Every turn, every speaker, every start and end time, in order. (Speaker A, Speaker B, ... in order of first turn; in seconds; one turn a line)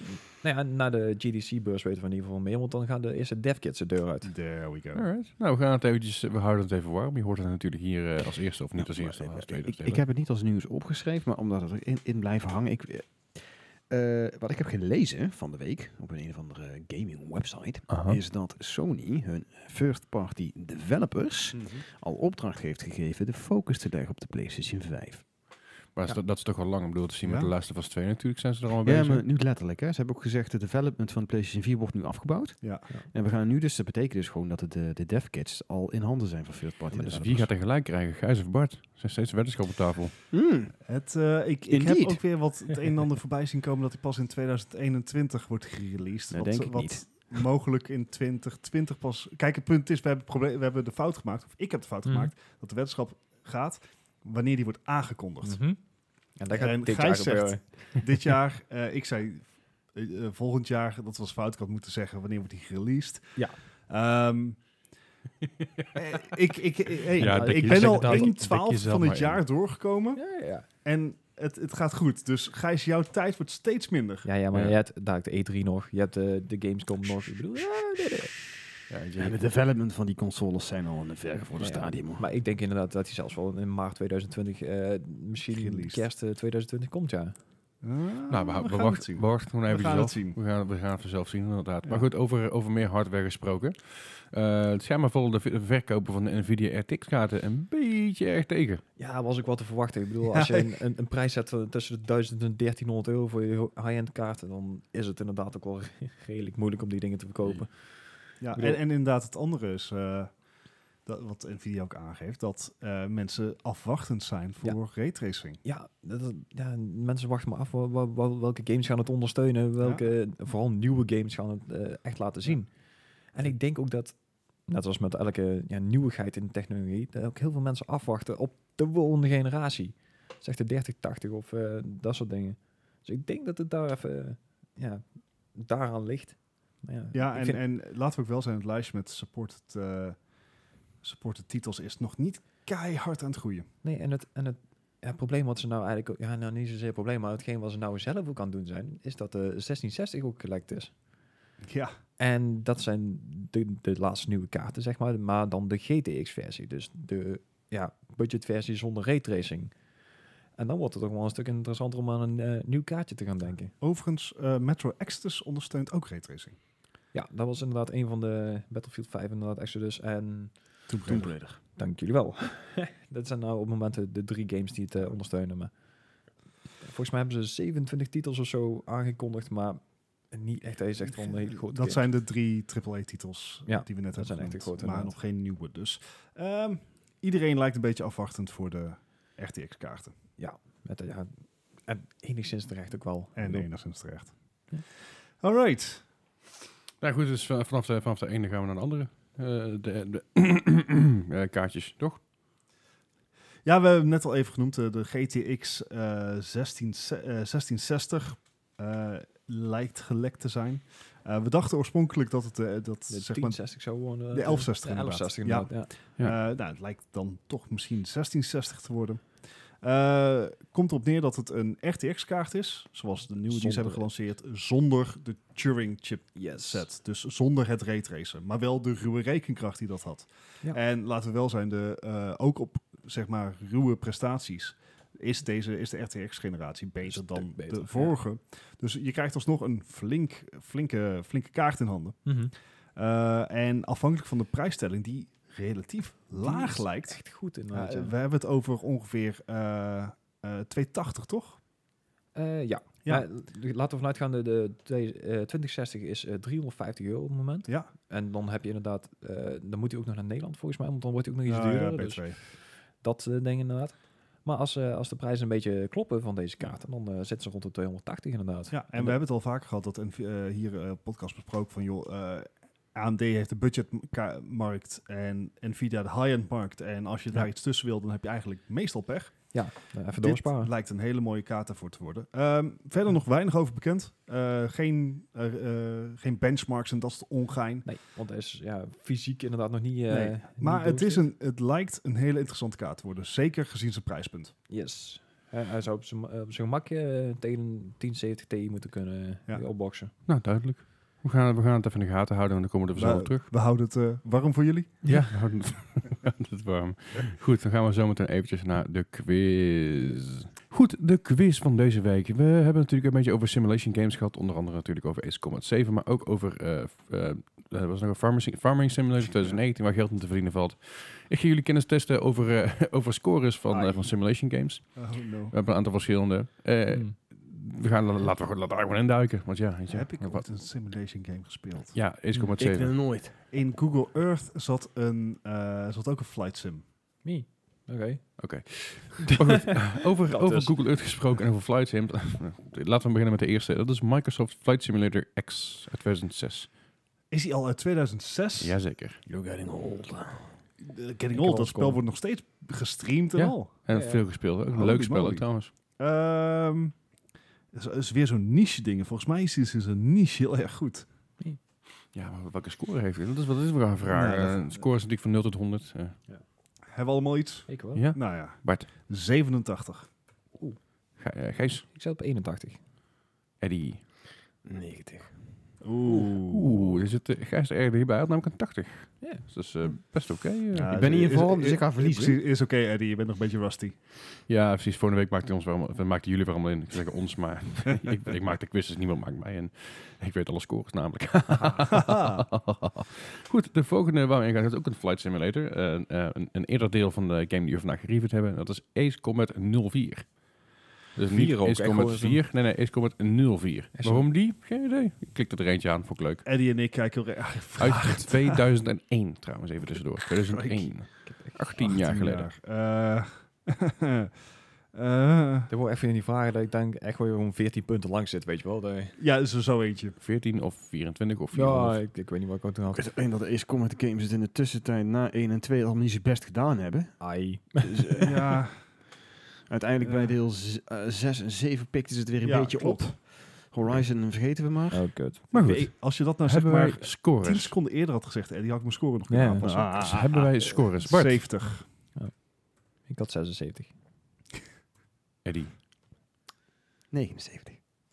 Speaker A: 0.4-4.3
Speaker B: 4.2-5.0
Speaker C: 4.9-10.0
Speaker D: 8.8-25.2
Speaker C: 17.9-18.2
Speaker C: 25.9-29.2
Speaker B: 27.2-27.5
Speaker D: 28.8-37.5
Speaker B: 32.6-32.9
Speaker C: 36.9-40.1
Speaker D: 40.3-40.8
Speaker B: 40.8-55.6
Speaker D: 41.7-42.2
Speaker D: 46.3-47.4
Speaker A: 52.0-52.3
Speaker A: 55.4-55.8
Speaker A: 56.4-58.0
Speaker B: 56.5-64.6
Speaker C: 65.6-66.0
Speaker B: 65.9-70.2
Speaker C: 67.2-69.4
Speaker A: 67.2-68.3
Speaker A: 70.2-70.7
Speaker B: 70.8-74.3
Speaker A: 74.2-78.6
Speaker C: 78.9-79.4
Speaker D: 79.2-82.2
Speaker A: 81.6-87.3
Speaker B: 85.5-86.0
Speaker B: 87.8-90.4
Speaker C: 88.3-98.8
Speaker A: 99.0-108.8
Speaker B: 100.3-100.7
Speaker B: 108.4-110.3
Speaker B: 111.0-115.6
Speaker A: 115.6-137.6
Speaker B: 119.8-120.1
Speaker B: 137.1-140.2
Speaker B: 141.0-143.7
Speaker A: 143.8-150.9
Speaker B: 151.6-151.9
Speaker A: 152.2-159.7
Speaker A: 160.6-163.7
Speaker B: 163.8-166.6
Speaker A: 167.1-170.8
Speaker B: 170.9-171.3
Speaker D: 171.1-171.6
Speaker A: 171.6-175.7
Speaker A: 176.8-182.0
Speaker B: 181.1-190.1
Speaker A: 183.7-185.1
Speaker A: 190.4-193.7
Speaker B: 193.3-194.3
Speaker B: 195.4-196.1
Speaker C: 197.0-202.2
Speaker B: 203.6-242.3
Speaker A: 213.1-215.9
Speaker A: 223.5-224.1
Speaker A: 226.3-226.8
Speaker A: 237.0-238.2
Speaker A: 242.2-242.5
Speaker B: 242.9-251.6
Speaker A: 246.4-248.1
Speaker A: 252.3-269.2
Speaker B: 261.4-262.4
Speaker B: 268.7-287.9
Speaker A: 279.5-280.7
Speaker A: 287.8-291.2
Speaker B: 290.1-294.5
Speaker A: 294.7-300.1
Speaker C: 300.2-303.4
Speaker B: 302.9-305.1
Speaker C: 305.0-330.5
Speaker B: 323.7-324.1
Speaker B: 324.9-325.5
Speaker A: 326.9-327.1
Speaker B: 329.9-332.0
Speaker C: 331.9-332.9
Speaker D: 332.6-333.4
Speaker B: 333.4-336.8
Speaker A: 337.2-338.7
Speaker C: 338.4-346.7
Speaker A: 340.2-340.7
Speaker B: 347.3-348.8
Speaker C: 348.6-349.2
Speaker D: 349.2-350.6
Speaker B: 350.8-353.7
Speaker A: 351.3-352.0
Speaker C: 353.3-355.7
Speaker A: 353.9-354.2
Speaker B: 354.6-357.0
Speaker B: 357.7-361.1
Speaker C: 362.1-366.2
Speaker A: 364.2-364.6
Speaker B: 366.9-370.1
Speaker A: 367.7-368.0
Speaker C: 367.9-368.9
Speaker C: 371.2-371.9
Speaker A: 371.9-372.8
Speaker C: 373.6-374.0
Speaker D: 374.6-375.5
Speaker B: 375.8-377.0
Speaker C: 376.4-380.9
Speaker A: 379.2-379.4
Speaker B: 380.7-384.0
Speaker D: 380.9-382.4
Speaker C: 384.4-400.5
Speaker B: 391.9-392.4
Speaker C: 401.1-406.4
Speaker A: 401.3-402.4
Speaker A: 403.9-404.3
Speaker B: 406.4-408.6
Speaker C: 407.8-412.5
Speaker B: 410.3-411.1
Speaker B: 411.8-414.4
Speaker B: 414.9-415.7
Speaker A: 415.7-419.2
Speaker B: 419.2-420.1
Speaker C: 420.2-422.0
Speaker A: 421.5-423.1
Speaker D: 422.9-428.6
Speaker A: 427.2-428.2
Speaker B: 428.2-428.9
Speaker D: 429.7-435.3
Speaker B: 430.0-430.4
Speaker B: 432.4-433.1
Speaker A: 434.9-435.8
Speaker C: 435.5-437.7
Speaker B: 435.5-441.9
Speaker A: 439.3-440.1
Speaker D: 439.6-440.4
Speaker C: 440.1-441.4
Speaker A: 442.1-443.9
Speaker C: 445.4-445.7
Speaker D: 447.1-447.8